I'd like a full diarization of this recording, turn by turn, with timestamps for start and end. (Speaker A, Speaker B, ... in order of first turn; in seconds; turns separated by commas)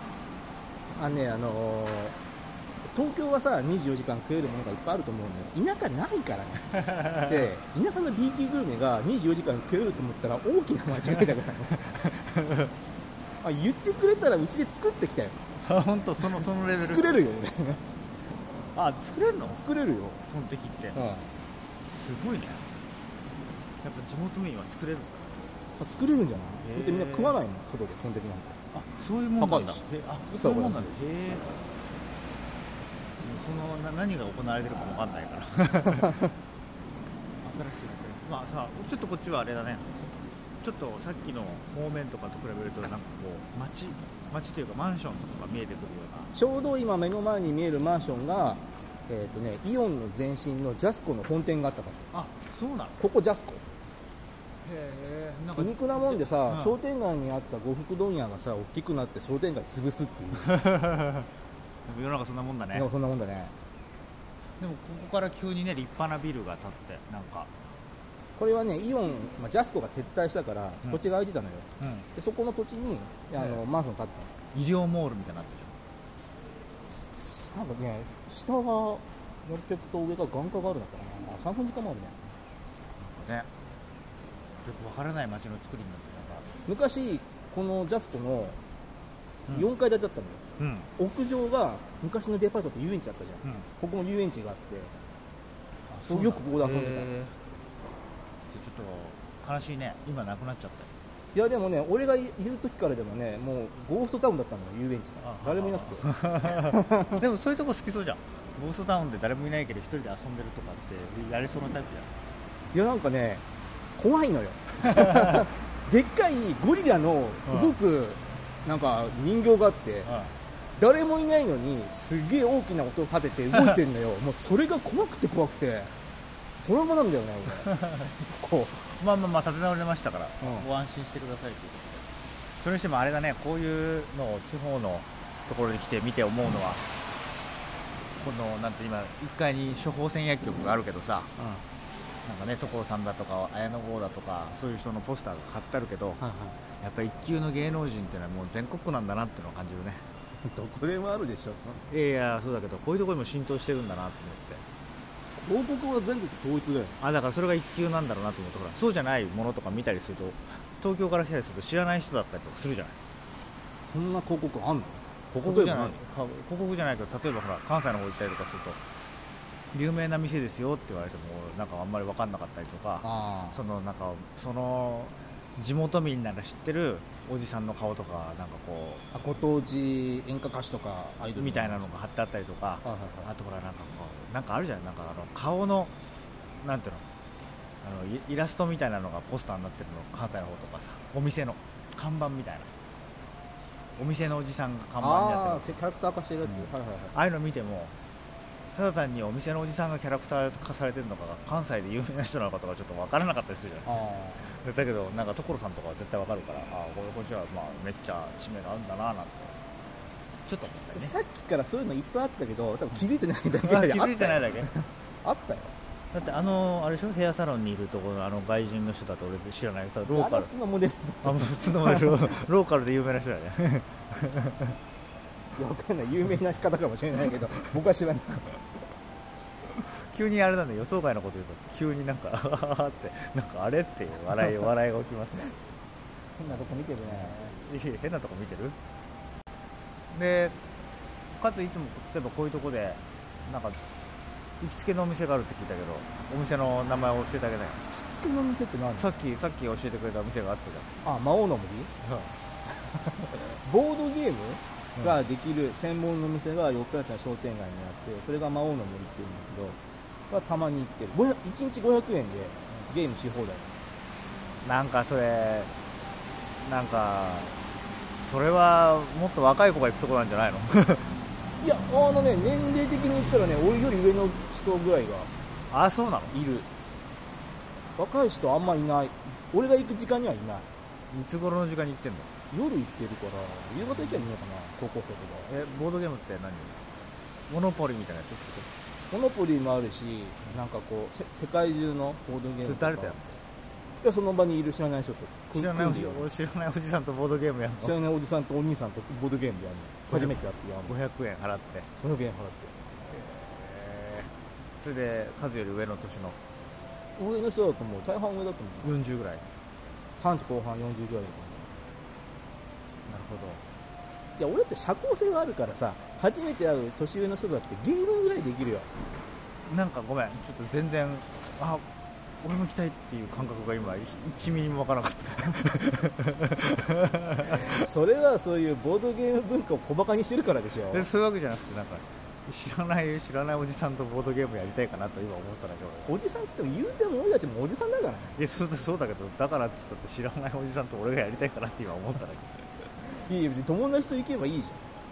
Speaker A: 0.9-2.2, Speaker A: 2.9-11.8, Speaker B: 6.7-7.5, Speaker B: 11.9-12.7, Speaker A: 13.4-15.4, Speaker B: 15.6-17.2, Speaker A: 16.2-17.8, Speaker B: 18.7-19.6, Speaker A: 19.5-20.2, Speaker B: 20.3-21.0, Speaker A: 20.9-21.3, Speaker B: 21.9-22.6, Speaker B: 23.8-25.4, Speaker A: 25.8-28.6, Speaker B: 26.6-27.4, Speaker B: 28.7-31.6, Speaker A: 29.4-30.9, Speaker B: 33.2-36.2, Speaker B: 37.4-39.9, Speaker B: 40.6-46.3, Speaker A: 46.3-52.1, Speaker B: 52.1-53.0, Speaker A: 53.0-53.6, Speaker B: 54.6-56.8, Speaker A: 55.5-60.6, Speaker B: 60.5-61.3, Speaker B: 61.9-62.9, Speaker A: 62.7-63.5, Speaker B: 64.6-67.5, Speaker A: 68.3-74.3, Speaker B: 71.8-72.1, Speaker B: 74.5-75.7, Speaker A: 77.1-82.2, Speaker B: 83.0-83.5, Speaker B: 84.6-86.5, Speaker A: 86.7-88.6, Speaker A: 89.5-90.4, Speaker B: 90.6-90.9, Speaker A: 91.0-94.9, Speaker B: 95.9-97.4, Speaker A: 96.1-97.1, Speaker B: 98.5-100.9, Speaker A: 101.3-107.2, Speaker B: 105.2-112.1, Speaker A: 112.7-113.4, Speaker A: 114.0-120.1, Speaker B: 114.9-115.5, Speaker B: 117.5-117.7, Speaker B: 120.0-120.3, Speaker A: 120.8-125.9, Speaker A: 126.6-128.8, Speaker B: 127.7-128.0, Speaker B: 128.9-132.1, Speaker A: 130.4-130.7, Speaker B: 132.6-136.8, Speaker B: 138.2-141.3, Speaker A: 141.4-141.6, Speaker B: 142.2-146.2, Speaker A: 146.2-146.6, Speaker B: 146.8-150.0, Speaker A: 150.4-151.8, Speaker B: 151.9-154.6, Speaker A: 155.4-157.0, Speaker B: 157.0-162.9, Speaker A: 163.9-166.0, Speaker B: 165.3-168.8, Speaker B: 169.7-179.0, Speaker A: 173.0-173.6, Speaker A: 179.1-181.9, Speaker B: 181.3-185.9, Speaker A: 182.8-183.3, Speaker B: 186.6-187.0, Speaker B: 187.8-192.7, Speaker B: 194.0-195.8, Speaker A: 195.0-197.2, Speaker B: 196.4-197.9, Speaker B: 198.7-209.5, Speaker A: 203.8-204.4, Speaker B: 210.5-211.1, Speaker A: 210.9-215.7, Speaker B: 213.5-214.7, Speaker B: 216.1-220.5, Speaker A: 220.1-222.4, Speaker B: 221.2-224.8, Speaker A: 225.6-228.6, Speaker B: 229.7-235.5, Speaker A: 236.4-237.3, Speaker B: 236.5-238.8, Speaker B: 240.1-240.6, Speaker B: 241.4-243.8, Speaker B: 244.6-247.9, Speaker A: 248.0-249.1, Speaker B: 248.9-251.0, Speaker A: 251.0-251.9, Speaker B: 252.0-252.3, Speaker A: 252.7-259.8, Speaker A: 260.3-263.7, Speaker B: 264.6-265.7, Speaker B: 266.6-267.5, Speaker B: 268.2-271.1, Speaker A: 271.6-275.3, Speaker B: 275.7-276.4, Speaker A: 276.3-276.7, Speaker A: 278.0-280.7, Speaker B: 281.1-282.3, Speaker A: 282.5-285.5, Speaker B: 283.9-284.3, Speaker B: 285.4-286.8, Speaker B: 287.5-288.7, Speaker A: 289.1-293.1, Speaker B: 292.6-293.4, Speaker A: 294.0-296.3, Speaker B: 295.5-297.9, Speaker A: 297.8-301.0, Speaker B: 300.1-301.9, Speaker A: 302.0-302.7, Speaker B: 303.1-306.4, Speaker A: 307.2-308.9, Speaker B: 308.8-309.4, Speaker A: 310.2-311.7, Speaker B: 313.1-313.6, Speaker A: 314.4-318.9, Speaker B: 319.6-321.8, Speaker B: 322.4-327.8, Speaker A: 327.5-331.1, Speaker B: 330.9-336.1, Speaker A: 336.1-338.4, Speaker B: 338.4-342.7, Speaker A: 343.0-344.8